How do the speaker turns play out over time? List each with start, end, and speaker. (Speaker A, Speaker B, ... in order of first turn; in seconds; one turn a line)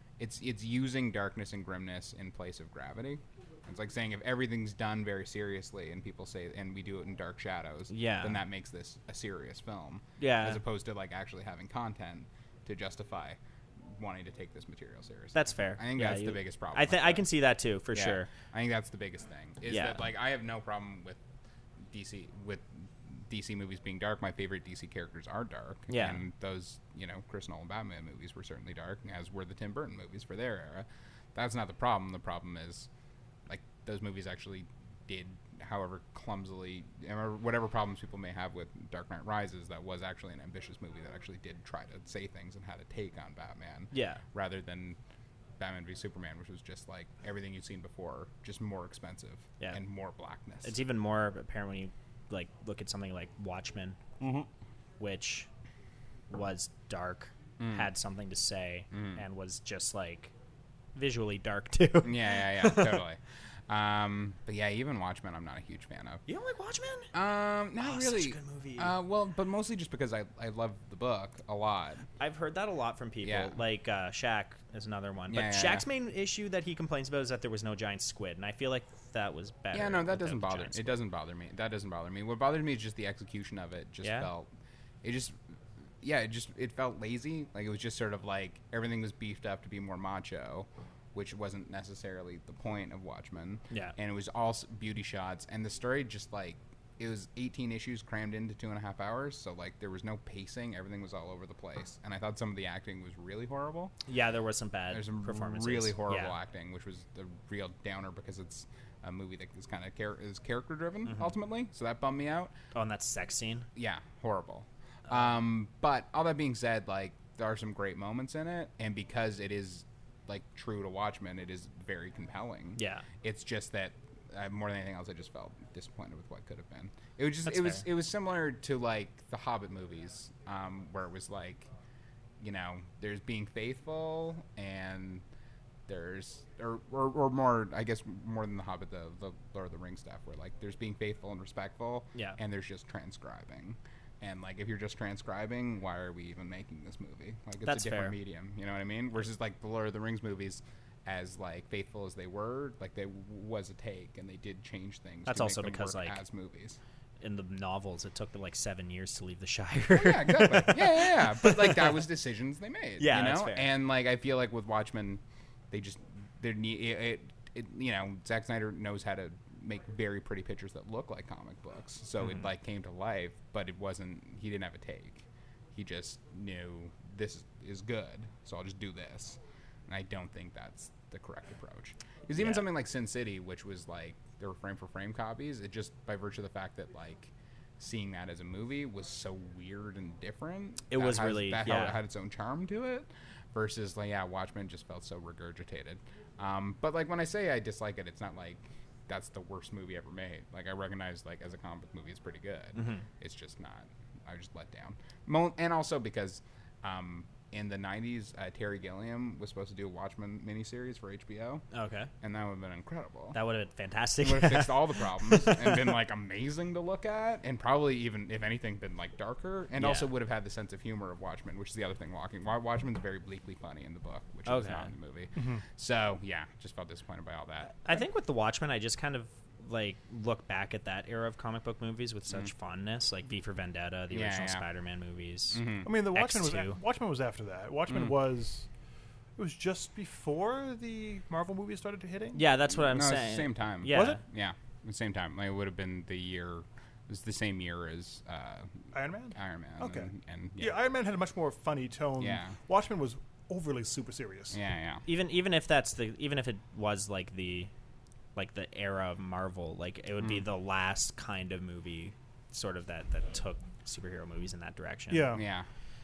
Speaker A: 0.2-17.2
Speaker B: 7.9-8.4
Speaker B: 10.2-10.6
Speaker B: 15.3-18.3
Speaker A: 17.9-21.2
Speaker B: 19.7-20.0
Speaker A: 21.9-32.9
Speaker B: 25.9-26.2
Speaker A: 33.5-45.0
Speaker B: 43.9-44.2
Speaker A: 45.6-50.8
Speaker B: 50.6-54.0
Speaker A: 54.2-54.5
Speaker B: 55.0-55.5
Speaker B: 56.3-60.3
Speaker A: 57.6-57.9
Speaker A: 58.9-59.2
Speaker B: 60.9-63.0
Speaker A: 62.0-66.2
Speaker B: 66.3-67.1
Speaker A: 67.1-72.1
Speaker B: 67.8-68.9
Speaker B: 72.2-80.9
Speaker A: 73.2-73.5
Speaker A: 75.3-75.8
Speaker A: 79.7-84.5
Speaker B: 84.0-84.3
Speaker A: 85.0-85.3
Speaker A: 86.0-103.9
Speaker B: 104.1-106.3
Speaker A: 104.9-112.5
Speaker B: 112.7-113.7
Speaker A: 113.8-131.7
Speaker B: 122.8-123.0
Speaker B: 127.5-127.8
Speaker A: 132.4-135.2
Speaker A: 135.9-156.8
Speaker B: 147.7-148.1
Speaker B: 155.2-156.2
Speaker B: 157.2-162.0
Speaker A: 159.9-211.7
Speaker B: 163.0-163.7
Speaker B: 172.2-172.4
Speaker B: 182.4-182.7
Speaker B: 190.9-192.0
Speaker B: 202.7-203.0
Speaker B: 211.7-212.1
Speaker A: 212.2-213.4
Speaker B: 213.3-215.9
Speaker A: 214.2-227.7
Speaker B: 219.8-220.1
Speaker B: 224.4-224.9
Speaker C: 225.3-225.6
Speaker B: 227.7-236.8
Speaker A: 234.1-234.6
Speaker A: 235.5-235.9
Speaker C: 235.8-238.7
Speaker A: 237.9-238.2
Speaker C: 239.4-242.4
Speaker B: 242.3-244.2
Speaker A: 242.7-250.8
Speaker C: 243.9-244.2
Speaker C: 248.9-254.6
Speaker A: 252.2-252.5
Speaker A: 254.5-255.1
Speaker B: 255.1-257.7
Speaker B: 258.4-265.4
Speaker C: 265.1-265.4
Speaker A: 265.3-265.7